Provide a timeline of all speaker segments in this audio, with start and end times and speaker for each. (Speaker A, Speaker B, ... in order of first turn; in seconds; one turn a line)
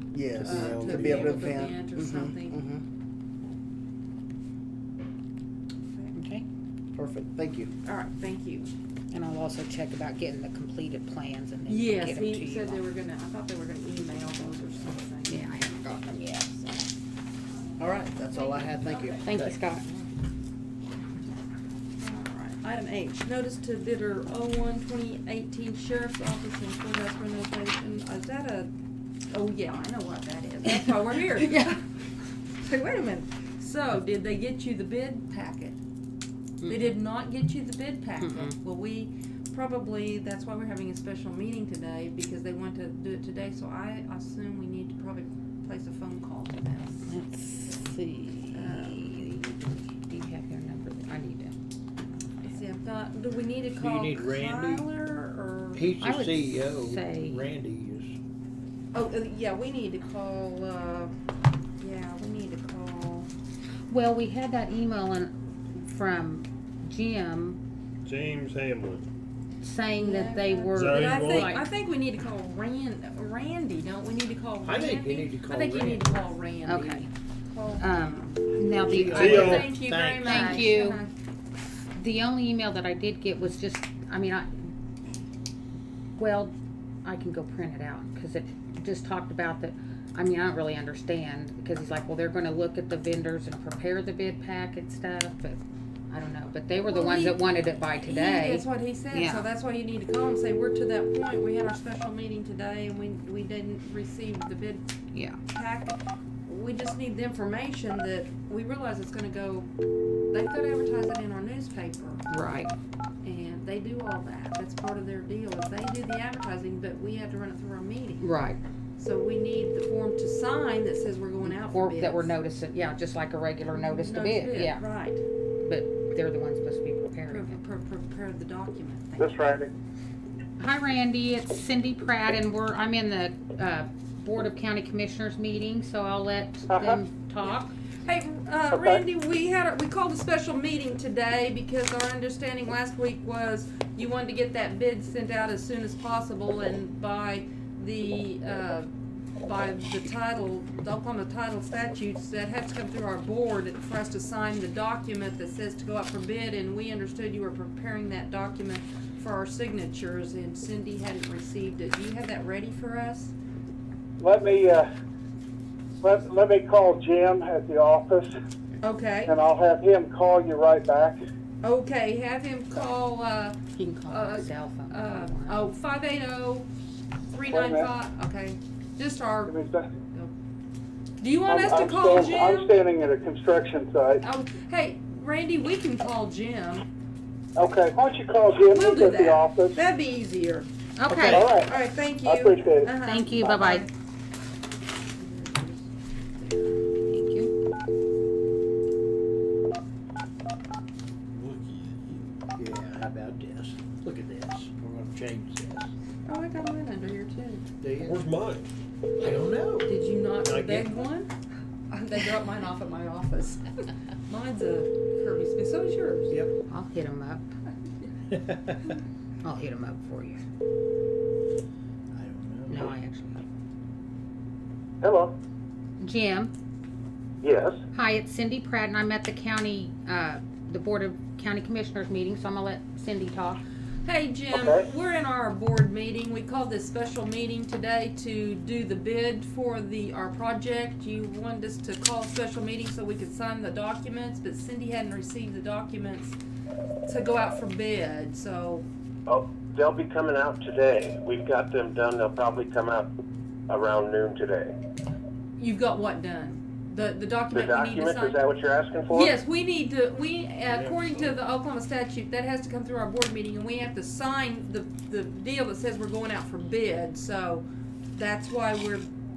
Speaker A: 0.1-2.8
Speaker B: 0.4-1.5
Speaker C: 0.4-2.6
Speaker D: 6.1-6.5
Speaker A: 7.0-7.7
Speaker C: 7.8-8.7
Speaker D: 9.1-12.8
Speaker C: 11.7-15.6
Speaker D: 15.3-16.9
Speaker C: 17.6-19.4
Speaker A: 17.8-19.6
Speaker D: 19.2-19.9
Speaker C: 22.0-28.7
Speaker C: 29.3-31.8
Speaker D: 30.7-31.7
Speaker C: 32.6-35.8
Speaker D: 36.6-36.9
Speaker C: 36.7-47.1
Speaker D: 38.2-38.5
Speaker D: 47.1-51.6
Speaker C: 48.5-49.3
Speaker C: 52.4-55.8
Speaker E: 53.7-54.9
Speaker E: 55.7-58.2
Speaker D: 56.0-57.5
Speaker C: 58.9-61.1
Speaker C: 61.8-63.3
Speaker D: 63.9-67.6
Speaker B: 68.0-69.1
Speaker D: 69.6-71.7
Speaker C: 69.9-78.4
Speaker B: 70.7-71.5
Speaker E: 74.6-76.1
Speaker D: 76.6-77.1
Speaker D: 77.8-79.7
Speaker E: 78.7-80.4
Speaker B: 79.1-79.7
Speaker C: 79.1-81.1
Speaker D: 80.2-81.0
Speaker D: 81.9-84.7
Speaker D: 86.2-99.4
Speaker C: 96.9-97.4
Speaker C: 98.0-104.8
Speaker D: 105.1-105.4
Speaker C: 105.5-109.7
Speaker C: 110.3-112.3
Speaker D: 112.3-112.7
Speaker C: 113.2-118.3
Speaker D: 118.2-118.6
Speaker C: 119.0-122.3
Speaker D: 121.4-124.8
Speaker C: 123.7-125.2
Speaker D: 125.6-127.6
Speaker C: 127.3-129.4
Speaker F: 129.2-129.7
Speaker D: 130.6-137.8
Speaker F: 136.7-137.0
Speaker C: 138.0-148.9
Speaker F: 138.7-139.0
Speaker C: 149.4-163.3
Speaker F: 164.2-164.9
Speaker F: 166.0-168.3
Speaker C: 168.8-169.3
Speaker F: 169.2-171.2
Speaker C: 171.6-176.7
Speaker D: 173.8-175.7
Speaker C: 177.3-179.5
Speaker F: 177.5-177.9
Speaker F: 179.5-179.8
Speaker C: 181.2-182.8
Speaker F: 181.5-184.2
Speaker C: 184.2-186.8
Speaker F: 187.6-189.8
Speaker C: 188.6-193.9
Speaker D: 191.0-191.5
Speaker F: 191.2-191.7
Speaker F: 192.2-192.9
Speaker D: 193.0-193.8
Speaker C: 195.2-196.8
Speaker D: 197.1-197.5
Speaker B: 201.3-201.9
Speaker E: 201.4-201.9
Speaker E: 202.6-205.9
Speaker C: 206.2-207.6
Speaker E: 207.8-208.6
Speaker B: 208.0-208.7
Speaker E: 209.2-210.9
Speaker C: 209.8-211.3
Speaker C: 211.9-213.7
Speaker C: 214.3-216.3
Speaker D: 216.7-217.5
Speaker E: 218.4-218.8
Speaker D: 219.4-220.4
Speaker E: 222.1-223.0
Speaker D: 222.7-223.4
Speaker G: 225.0-225.3
Speaker D: 226.0-226.5
Speaker G: 227.4-227.8
Speaker D: 227.9-233.6
Speaker C: 234.1-246.4
Speaker C: 247.1-248.9
Speaker G: 249.2-253.1
Speaker G: 253.7-254.8
Speaker C: 255.6-258.4
Speaker G: 257.5-259.3
Speaker C: 259.1-269.1